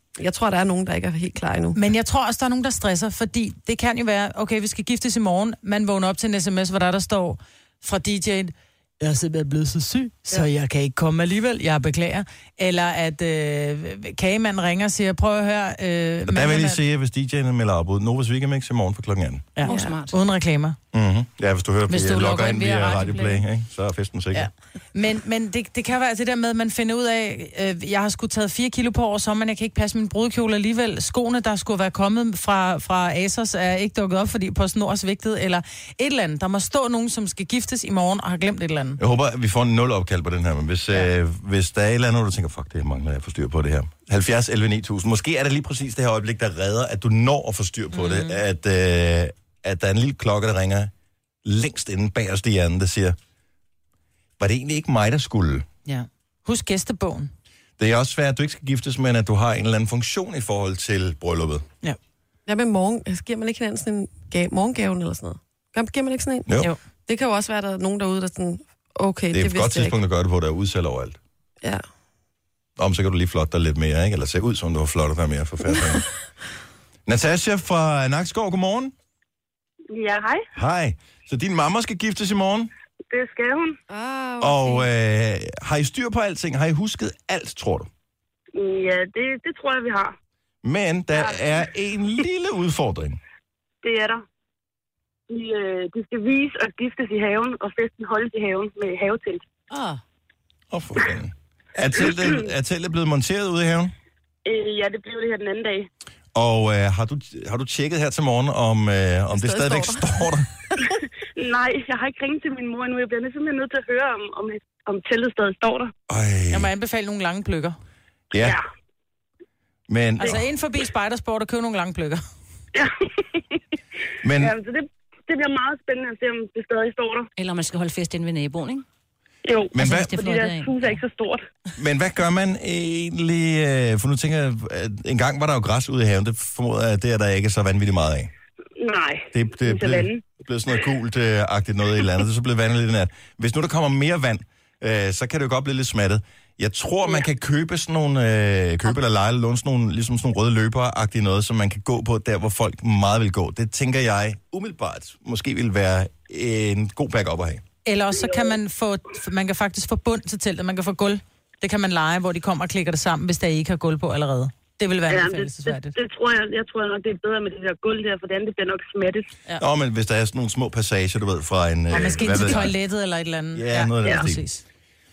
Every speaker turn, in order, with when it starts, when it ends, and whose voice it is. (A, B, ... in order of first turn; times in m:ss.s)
0:00.2-0:01.8 A
0:01.7-0:16.8 B
0:16.3-0:19.5 C
0:19.6-0:20.8 B
0:19.6-0:20.1 D
0:19.7-0:20.0 A
0:20.9-0:24.5 C
0:21.9-0:23.4 B
0:24.3-0:39.0 B
0:39.0-0:50.9 C
0:47.9-0:48.4 B
0:51.4-0:53.2 C
0:54.4-0:55.7 C
0:55.9-0:57.3 B
0:57.8-1:01.7 C
1:02.5-1:06.5 A
1:06.5-1:06.7 C
1:07.1-1:10.0 A
1:09.3-1:11.2 C
1:12.8-1:16.1 C
1:17.1-1:18.9 C
1:19.9-1:20.5 E
1:20.5-1:22.7 C
1:23.1-1:23.8 E
1:23.9-1:24.9 A
1:24.4-1:27.9 C
1:28.6-1:30.1 E
1:30.6-1:33.2 C
1:33.8-1:34.2 E
1:35.3-1:39.4 E
1:39.7-1:40.0 D
1:40.7-1:43.9 C
1:44.4-1:45.9 E
1:46.4-1:50.5 C
1:49.3-1:50.3 A
1:51.4-1:55.9 E
1:56.1-1:56.7 C
1:56.5-1:57.8 B
1:58.3-1:58.6 C
1:58.4-1:58.6 E
1:59.9-2:00.4 C
2:00.2-2:02.2 B
2:02.7-2:03.6 E
2:04.2-2:04.5 C
2:04.4-2:07.3 E
2:07.4-2:08.8 D
2:09.4-2:11.4 E
2:09.7-2:10.2 C
2:09.8-2:11.0 D
2:11.8-2:18.3 C
2:18.8-2:20.2 E
2:19.3-2:37.6 C
2:37.8-2:46.0 B
2:45.1-2:49.3 E
2:49.6-2:52.8 C
2:51.9-2:54.6 B
2:53.6-2:54.4 C